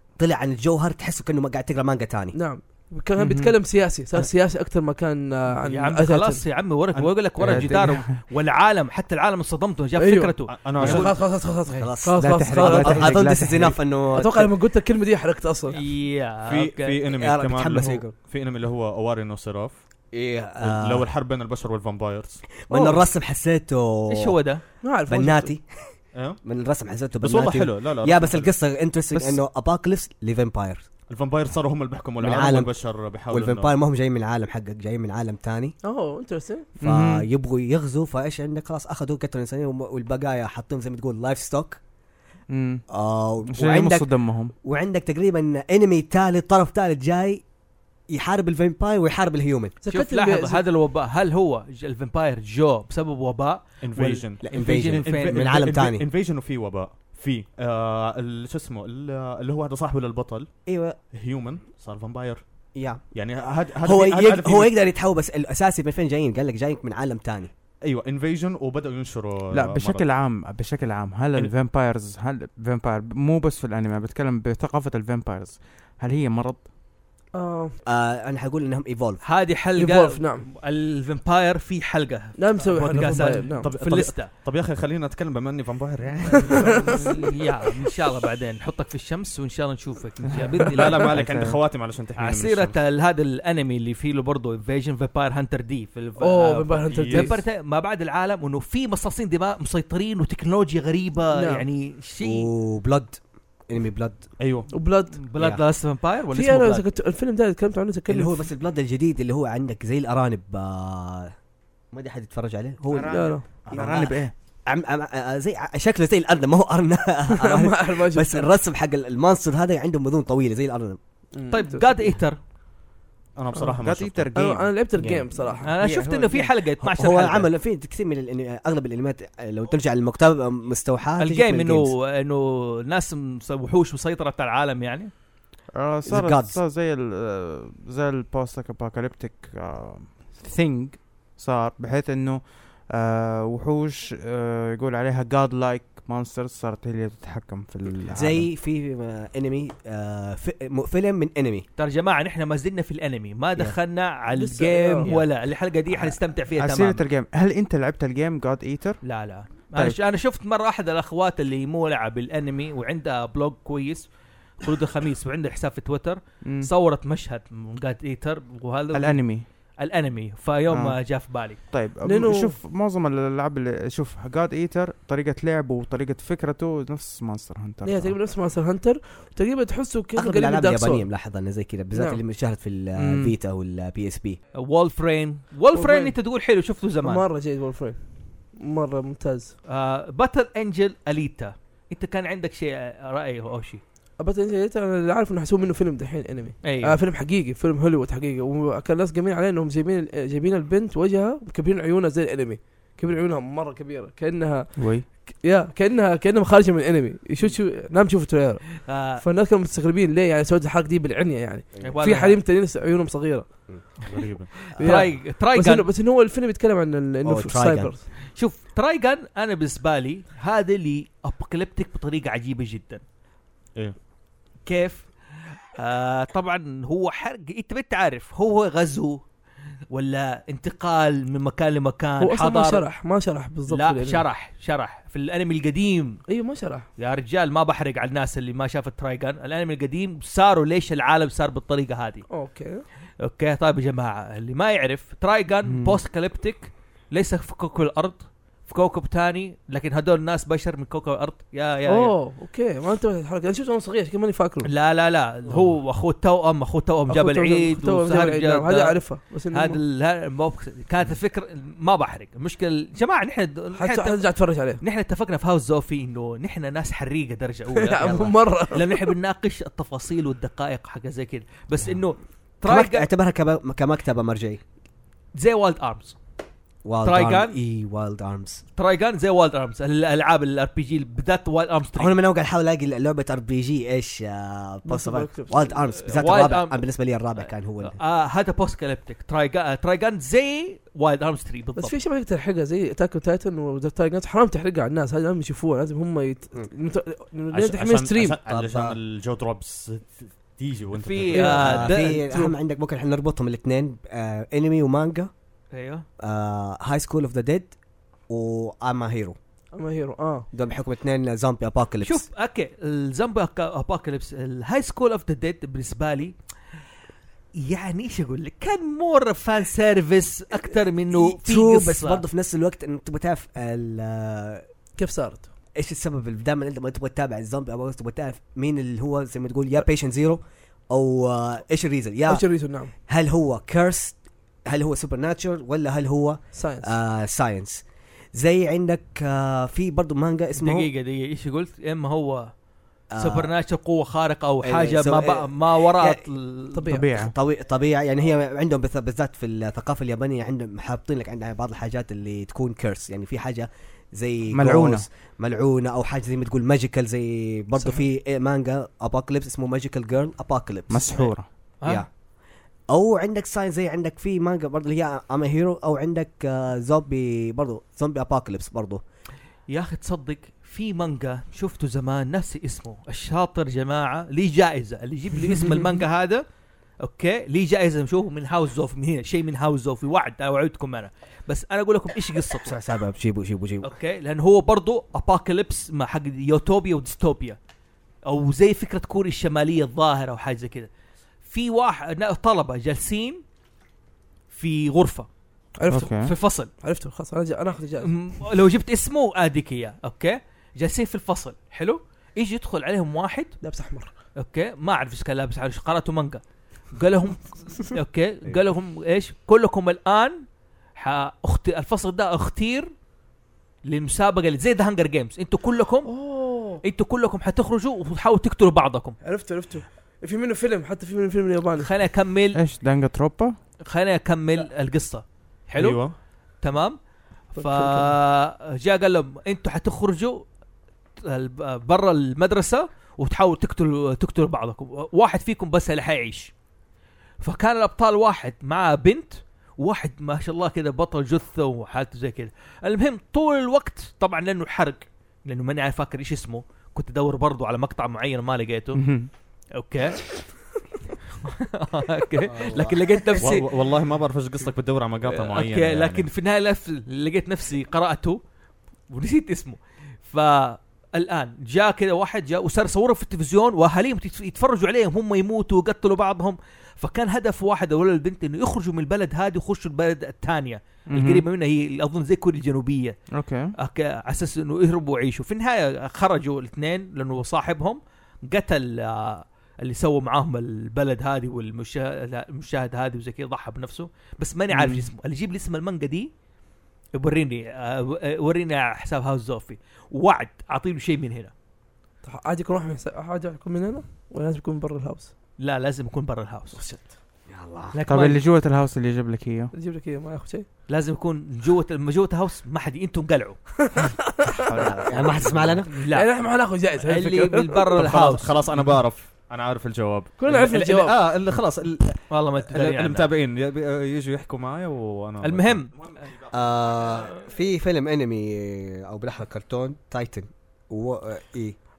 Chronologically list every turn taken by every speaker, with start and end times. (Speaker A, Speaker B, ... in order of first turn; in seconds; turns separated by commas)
Speaker A: 0.2-2.4, Speaker B: 2.3-6.4, Speaker C: 3.2-3.5, Speaker D: 5.7-11.1, Speaker E: 6.9-7.9, Speaker C: 7.4-8.2, Speaker B: 10.0-13.3, Speaker E: 10.5-11.2, Speaker A: 11.7-14.5, Speaker C: 12.2-13.8, Speaker B: 14.1-15.8, Speaker D: 15.7-17.0, Speaker E: 16.4-19.8, Speaker A: 17.1-18.1, Speaker A: 20.1-21.1, Speaker E: 20.6-22.5, Speaker A: 22.6-24.4, Speaker B: 22.7-23.0, Speaker D: 24.1-24.6, Speaker B: 24.8-25.5, Speaker A: 25.1-30.8, Speaker E: 26.1-26.4, Speaker E: 27.2-28.6, Speaker E: 31.1-33.7, Speaker A: 32.2-35.8, Speaker B: 35.8-36.7, Speaker A: 36.8-41.8, Speaker C: 36.8-37.2, Speaker C: 42.5-42.8, Speaker A: 42.9-44.1, Speaker C: 43.5-44.5, Speaker A: 44.6-47.4, Speaker A: 48.1-49.7, Speaker B: 49.8-50.6, Speaker D: 49.9-55.5, Speaker E: 53.8-60.5, Speaker A: 54.4-56.0, Speaker A: 60.7-61.0, Speaker E: 61.1-62.4, Speaker A: 62.7-63.1, Speaker E: 63.1-64.7, Speaker A: 63.8-67.5, Speaker E: 67.8-70.0, Speaker C: 69.5-76.7, Speaker B: 77.3-77.8, Speaker A: 77.8-79.2, Speaker D: 79.2-84.3, Speaker B: 79.8-80.4, Speaker B: 82.4-83.7, Speaker E: 83.5-86.9, Speaker C: 86.3-87.0, Speaker B: 86.5-86.9, Speaker D: 86.8-91.1, Speaker C: 90.3-91.6, Speaker E: 90.6-92.8, Speaker D: 92.2-102.5, Speaker B: 96.2-97.4, Speaker E: 96.9-97.4, Speaker B: 101.3-101.6, Speaker A: 102.2-104.3, Speaker E: 104.4-104.7, Speaker B: 104.7-105.2, Speaker D: 105.2-106.8, Speaker B: 106.3-108.5, Speaker A: 108.1-111.3, Speaker A: 111.9-121.0, Speaker C: 112.9-114.3, Speaker B: 113.1-113.4, Speaker E: 113.7-114.0, Speaker B: 117.3-118.5, Speaker B: 121.3-122.2, Speaker D: 121.5-122.4, Speaker E: 123.3-124.3, Speaker C: 123.7-124.7, Speaker B: 124.3-125.8, Speaker A: 125.0-125.2, Speaker D: 125.6-127.5, Speaker C: 125.8-126.5, Speaker A: 126.8-131.9, Speaker D: 131.2-135.1, Speaker C: 135.7-148.5, Speaker A: 136.1-136.6, Speaker A: 148.1-151.6, Speaker D: 151.8-157.1, Speaker B: 154.3-155.1, Speaker C: 155.9-159.0, Speaker D: 159.0-164.0, Speaker D: 164.6-171.6, Speaker C: 166.4-166.7, Speaker C: 168.9-169.4, Speaker C: 170.7-171.0, Speaker C: 171.7-178.1, Speaker B: 172.0-172.6, Speaker B: 177.8-181.1, Speaker A: 180.2-184.4, Speaker B: 181.9-182.2, Speaker C: 183.0-183.3, Speaker D: 184.5-187.2, Speaker B: 185.7-186.1, Speaker B: 187.0-188.0, Speaker B: 188.6-189.5, Speaker D: 189.7-193.8, Speaker B: 194.2-213.5, Speaker D: 196.6-197.0, Speaker C: 204.8-205.0, Speaker D: 208.8-209.2, Speaker D: 211.8-212.4, Speaker E: 214.1-214.5, Speaker D: 214.6-215.9, Speaker B: 214.8-218.0, Speaker A: 217.2-217.9, Speaker D: 218.3-223.0, Speaker D: 224.7-225.1, Speaker D: 225.7-229.2, Speaker D: 229.9-232.8, Speaker B: 232.2-234.2, Speaker D: 233.7-236.2, Speaker B: 236.3-236.9, Speaker D: 237.0-242.3, Speaker B: 242.3-242.8, Speaker D: 243.2-252.1, Speaker C: 245.6-246.0, Speaker B: 251.9-254.7, Speaker D: 254.6-273.1, Speaker B: 257.1-259.8, Speaker B: 263.7-264.8, Speaker B: 267.8-269.1, Speaker A: 272.6-274.6, Speaker D: 275.3-276.2, Speaker A: 276.8-278.6, Speaker D: 277.0-277.6, Speaker D: 278.8-282.2, Speaker A: 281.9-288.0, Speaker B: 284.9-285.8, Speaker D: 286.1-286.8, Speaker D: 287.4-291.9, Speaker B: 291.8-298.4, Speaker E: 297.5-301.9, Speaker A: 298.4-299.0, Speaker D: 300.9-302.1, Speaker B: 301.3-302.5, Speaker A: 301.5-305.3, Speaker D: 305.7-306.1, Speaker A: 306.2-307.7, Speaker A: 308.3-309.4, Speaker B: 309.7-310.5, Speaker A: 310.5-312.2, Speaker D: 312.0-316.3, Speaker D: 317.6-322.2, Speaker A: 321.1-324.6, Speaker B: 325.0-325.5, Speaker A: 325.8-337.8, Speaker B: 332.3-332.9, Speaker B: 336.5-336.9, Speaker A: 338.3-340.9, Speaker D: 340.6-342.5, Speaker A: 343.1-343.5, Speaker D: 343.2-346.9, Speaker A: 344.6-346.2, Speaker B: 346.7-347.1, Speaker C: 346.9-347.3, Speaker A: 347.1-361.3, Speaker C: 354.5-355.0, Speaker C: 360.9-361.5, Speaker A: 361.8-362.1, Speaker A: 362.9-369.0, Speaker D: 369.7-376.4, Speaker D: 377.0-382.7, Speaker A: 382.6-383.9, Speaker D: 383.8-387.6, Speaker D: 388.2-390.9, Speaker D: 391.4-393.4, Speaker D: 394.5-395.3, Speaker B: 395.8-396.2, Speaker C: 395.9-396.3, Speaker D: 396.2-396.7, Speaker B: 396.8-398.1, Speaker D: 398.0-403.6, Speaker B: 403.6-404.1, Speaker D: 404.4-406.4, Speaker D: 406.9-410.4, Speaker D: 410.9-412.9, Speaker D: 413.8-416.1, Speaker B: 416.1-416.8, Speaker D: 416.8-419.2, Speaker B: 419.2-421.9, Speaker D: 421.8-422.6, Speaker C: 422.5-423.6, Speaker D: 423.9-426.0, Speaker E: 425.8-426.1, Speaker D: 426.6-427.0, Speaker B: 427.5-428.1, Speaker D: 427.5-430.4, Speaker D: 431.2-436.5, Speaker D: 437.4-449.0, Speaker C: 448.9-449.3, Speaker D: 449.8-450.4, Speaker D: 451.4-453.7, Speaker A: 452.4-453.1, Speaker E: 453.4-456.3, Speaker D: 455.2-458.4, Speaker D: 459.1-473.2, Speaker C: 471.1-471.4, Speaker C: 473.3-473.7, Speaker D: 473.8-486.3, Speaker C: 484.7-485.1, Speaker D: 487.1-491.5, Speaker B: 492.2-495.3, Speaker D: 495.6-496.8, Speaker B: 496.7-497.1, Speaker A: 497.5-497.9, Speaker D: 497.9-498.4, Speaker C: 498.1-499.7, Speaker B: 499.7-500.7, Speaker D: 500.9-503.7, Speaker B: 503.9-504.5, Speaker C: 504.5-505.8, Speaker A: 505.0-505.9, Speaker D: 505.9-508.5, Speaker B: 506.1-507.9, Speaker E: 507.9-516.5, Speaker B: 510.4-511.1, Speaker D: 512.3-513.3, Speaker D: 515.4-516.1, Speaker A: 516.5-521.8